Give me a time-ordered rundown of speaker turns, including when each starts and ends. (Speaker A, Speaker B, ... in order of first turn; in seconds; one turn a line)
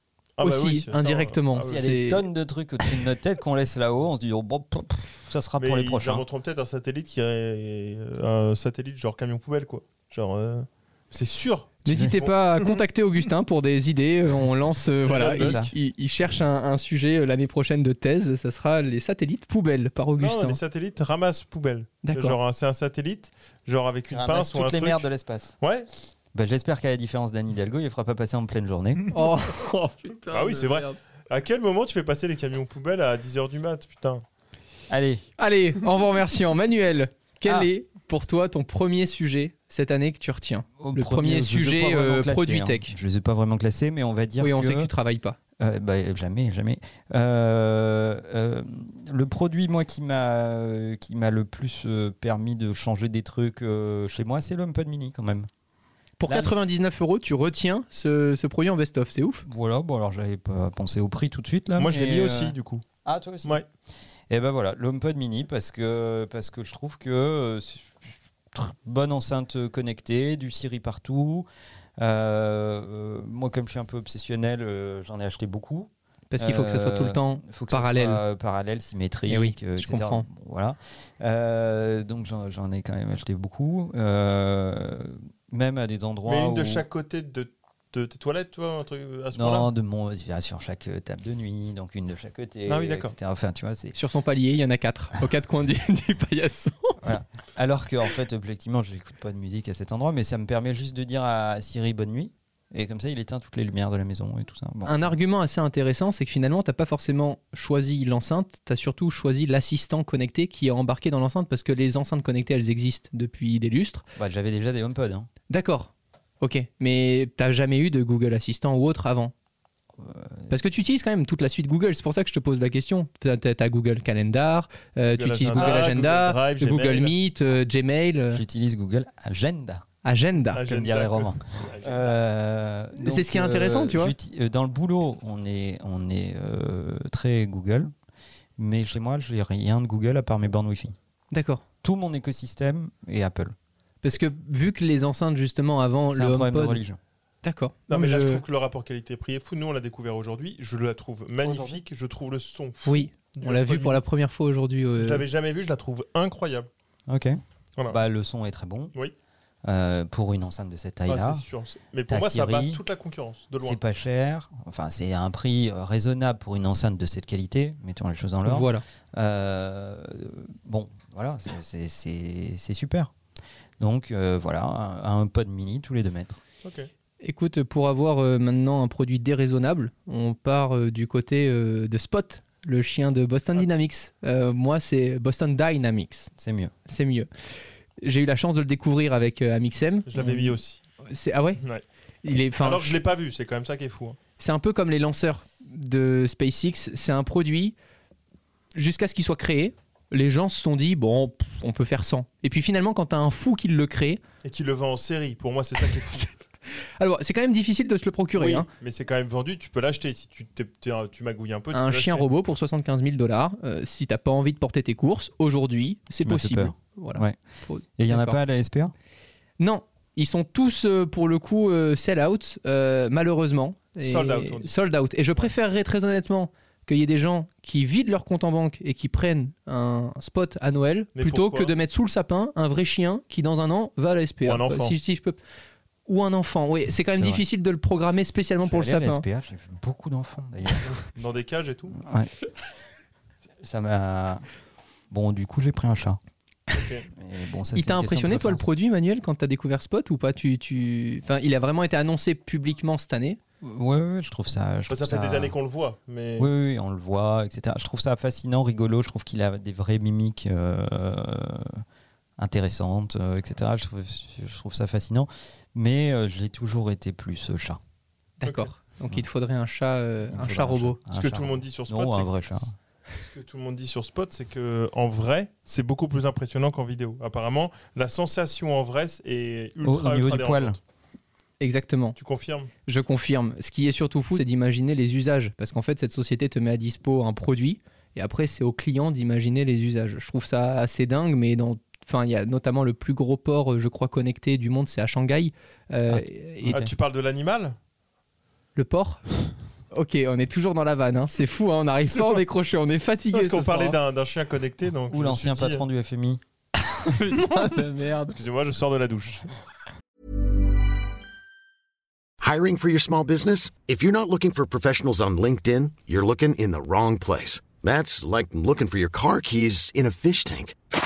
Speaker A: 0.4-1.8
Speaker B: 0.4-2.3
Speaker C: 1.6-6.2
Speaker A: 5.6-12.8
Speaker B: 11.8-20.6
Speaker C: 11.9-12.2
Speaker A: 15.1-15.7
Speaker C: 15.2-15.7
Speaker A: 20.2-25.1
Speaker B: 22.0-22.4
Speaker C: 24.1-25.6
Speaker A: 25.6-25.9
Speaker C: 26.3-29.1
Speaker B: 29.1-31.0
Speaker A: 30.3-34.2
Speaker C: 34.9-35.2
Speaker B: 35.4-43.0
Speaker C: 37.5-37.7
Speaker C: 40.8-44.9
Speaker B: 44.4-45.4
Speaker C: 45.6-55.5
Speaker B: 56.2-59.5
Speaker C: 56.3-56.5
Speaker C: 59.5-63.6
Speaker A: 61.8-62.8
Speaker C: 64.3-71.5
Speaker C: 72.0-86.9
Speaker B: 76.3-78.2
Speaker B: 79.3-80.3
Speaker A: 86.3-89.7
Speaker C: 89.3-94.0
Speaker A: 92.7-93.2
Speaker B: 93.9-97.0
Speaker C: 97.0-105.2
Speaker B: 104.8-114.0
Speaker C: 114.2-115.3
Speaker B: 115.5-119.3
Speaker C: 120.0-120.5
Speaker B: 120.5-128.4
Speaker A: 125.2-127.2
Speaker C: 125.6-125.9
Speaker C: 128.3-129.8
Speaker B: 130.0-130.6
Speaker A: 130.5-132.2
Speaker C: 130.6-137.9
Speaker B: 133.0-134.2
Speaker C: 138.6-140.9
Speaker B: 141.3-141.6
Speaker C: 141.8-143.6
Speaker B: 144.0-146.8
Speaker C: 146.1-147.0
Speaker B: 147.4-148.4
Speaker A: 147.9-154.0
Speaker C: 151.4-151.8
Speaker B: 152.9-155.2
Speaker A: 155.0-156.7
Speaker C: 157.1-157.4
Speaker C: 157.9-158.9
Speaker C: 159.6-161.4
Speaker A: 161.1-163.8
Speaker C: 162.1-162.8
Speaker C: 163.6-173.1
Speaker B: 168.4-168.8
Speaker C: 173.8-176.4
Speaker A: 176.6-176.9
Speaker B: 177.2-186.3
Speaker C: 186.4-186.7
Speaker B: 186.9-187.3
Speaker B: 188.0-191.6
Speaker A: 190.1-190.8
Speaker B: 192.2-193.0
Speaker A: 192.6-194.2
Speaker B: 194.4-197.8
Speaker B: 198.8-204.2
Speaker A: 204.4-206.3
Speaker B: 205.8-206.2
Speaker B: 207.0-208.7
Speaker A: 208.4-212.3
Speaker B: 211.7-218.4
Speaker C: 216.2-217.4
Speaker C: 218.0-218.9
Speaker B: 219.6-235.4
Speaker A: 224.0-224.7
Speaker A: 231.2-231.7
Speaker A: 234.4-235.0
Speaker B: 236.1-239.2
Speaker C: 237.1-237.4
Speaker C: 238.7-240.9
Speaker A: 241.1-242.0
Speaker C: 242.0-242.3
Speaker C: 243.6-244.4
Speaker C: 245.1-246.2
Speaker A: 246.7-247.1
Speaker C: 247.1-248.7
Speaker B: 247.7-253.4
Speaker C: 253.6-255.6
Speaker A: 254.9-256.5
Speaker C: 256.4-261.8
Speaker C: 262.4-267.8
Speaker B: 268.4-271.0
Speaker A: 268.4-268.7
Speaker C: 270.3-272.8
Speaker A: 271.1-280.8
Speaker C: 279.8-280.8
Speaker B: 281.6-282.2
Speaker A: 282.2-282.7
Speaker B: 282.9-296.8
Speaker C: 296.1-296.9
Speaker A: 296.6-297.8
Speaker B: 298.8-299.2
Speaker B: 299.9-304.0
Speaker A: 303.3-305.8
Speaker C: 305.1-306.4
Speaker B: 306.8-308.4
Speaker A: 308.3-309.5
Speaker D: 312.4-320.8